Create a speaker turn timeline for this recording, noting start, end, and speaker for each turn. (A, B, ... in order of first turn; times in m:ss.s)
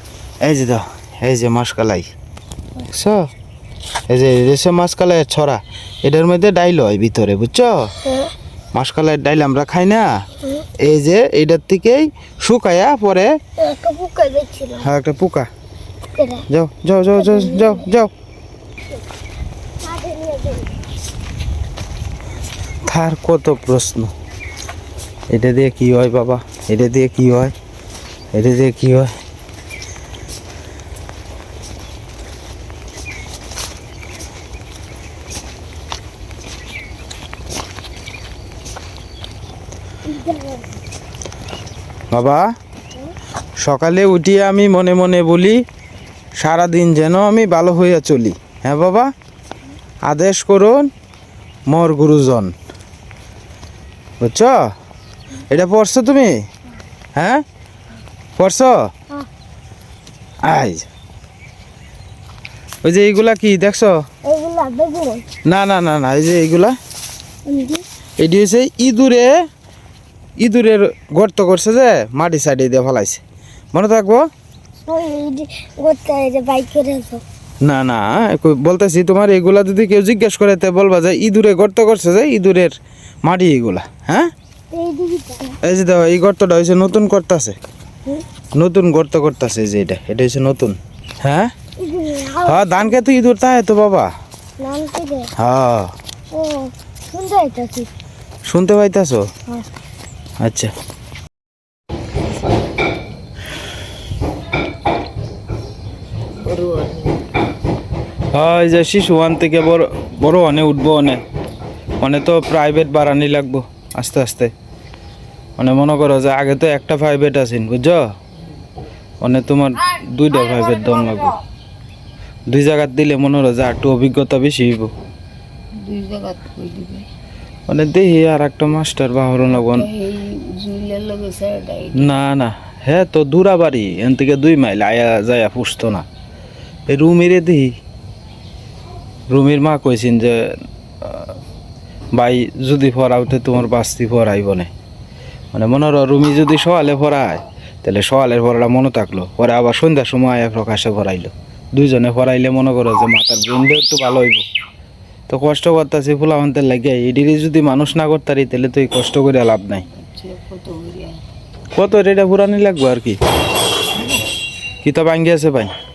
0:00.4-0:02.1 A
0:02.9-0:03.3 A
0:04.1-0:07.9 A
0:08.0-0:08.3 B
0:08.7-0:10.2 A
0:10.8-0:13.3 A
0:13.6-0:14.9 B
0:14.8-0:15.5 A
0:16.1-0:16.4 B
0:16.5-0:18.1 A
0:17.2-0:17.8 B
0:19.8-0:20.8 B
0:22.9-0:24.1 A
0:25.3-0:27.5 A
0:28.3-0:29.1 A
0:40.0-0:40.7 B
0:42.1-0:42.5 A
0:43.6-0:45.6 A
0:46.4-0:49.1 A
0:50.0-0:50.9 A
0:51.7-0:52.5 A
0:54.2-0:54.6 A
0:55.5-0:56.3 A
0:57.2-0:57.4 A
0:58.4-0:58.8 A
1:00.4-1:00.8 A
1:02.8-1:04.0 A
1:04.2-1:05.2 B
1:05.4-1:06.8 A
1:07.4-1:07.8 B
1:08.2-1:09.3 A
1:10.4-1:13.2 A
1:13.7-1:14.2 A
1:14.8-1:17.2 B
1:17.6-1:22.7 A
1:23.2-1:24.3 A
1:24.7-1:25.5 B
1:25.6-1:27.5 A
1:28.6-1:31.5 A
1:31.8-1:32.9 B
1:32.4-1:34.1 A
1:34.6-1:35.3 B
1:35.4-1:35.9 A
1:36.3-1:37.9 B
1:38.5-1:39.2 A
1:40.4-1:40.7 A
1:46.4-1:47.2 C
1:48.3-1:51.2 A
1:52.0-1:54.5 A
1:55.6-1:58.0 A
1:59.2-2:01.3 A
2:02.5-2:04.9 A
2:05.8-2:07.1 C
2:07.7-2:09.9 A
2:09.5-2:12.2 C
2:12.0-2:16.0 A
2:16.9-2:17.7 A
2:19.3-2:21.3 A
2:22.1-2:24.7 A
2:25.5-2:34.4 A
2:35.3-2:39.8 A
2:39.9-2:41.2 C
2:41.8-2:43.2 A
2:44.8-2:45.7 A